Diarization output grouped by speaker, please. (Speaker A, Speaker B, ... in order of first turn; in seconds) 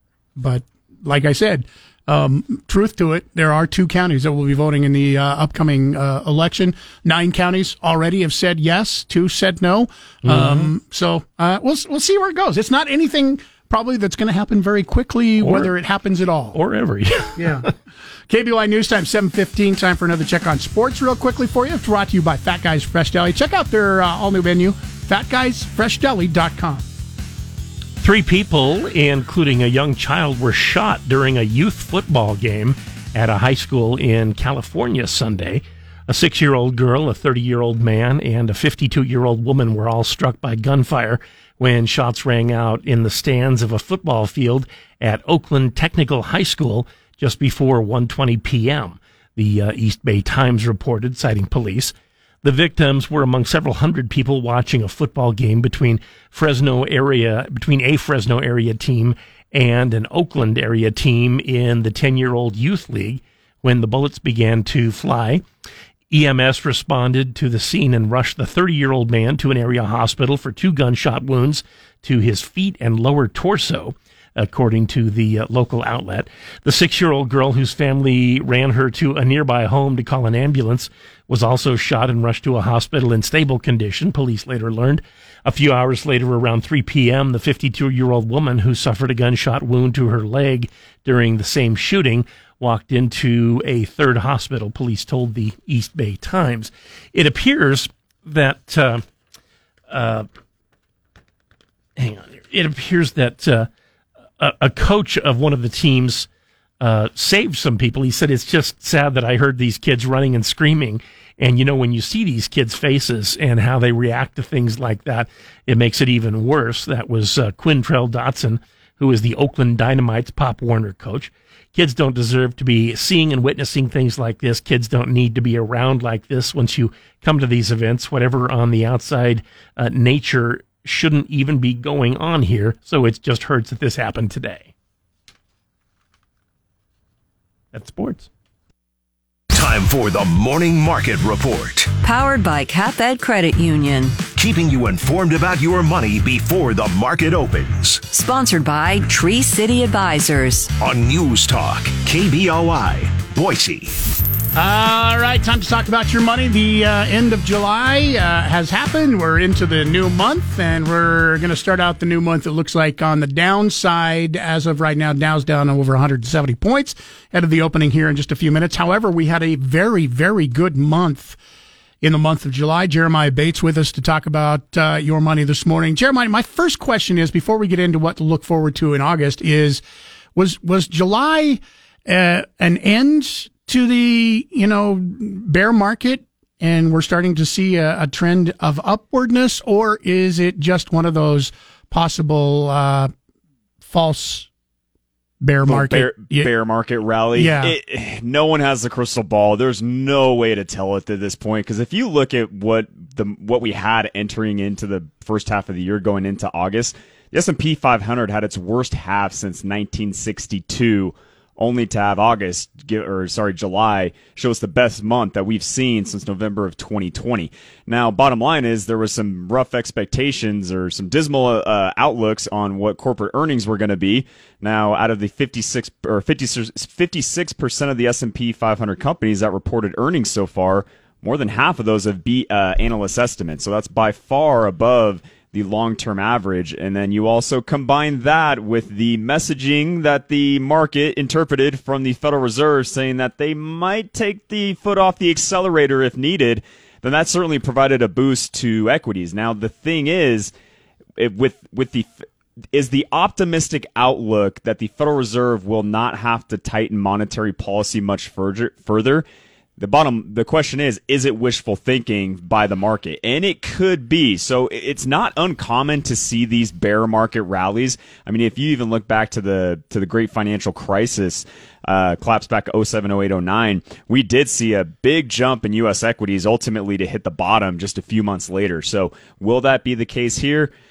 Speaker A: 0.4-16.6, 17.4-17.7, 18.3-26.9, 154.5-171.4, 172.0-179.8, 180.3-193.1, 193.8-194.5, 195.4-196.5, 197.3-197.7
Speaker B: 10.2-10.7, 15.4-15.7, 16.5-17.6, 28.0-65.4, 66.1-99.0, 99.9-100.3, 102.0-103.7, 104.4-106.3, 106.8-134.7, 137.7-138.3
Speaker C: 139.5-141.9, 144.3-148.0, 150.8-153.9
Speaker D: 142.0-144.2, 148.1-150.7
Speaker E: 195.7-250.5, 251.2-252.1, 252.7-259.2, 259.8-280.7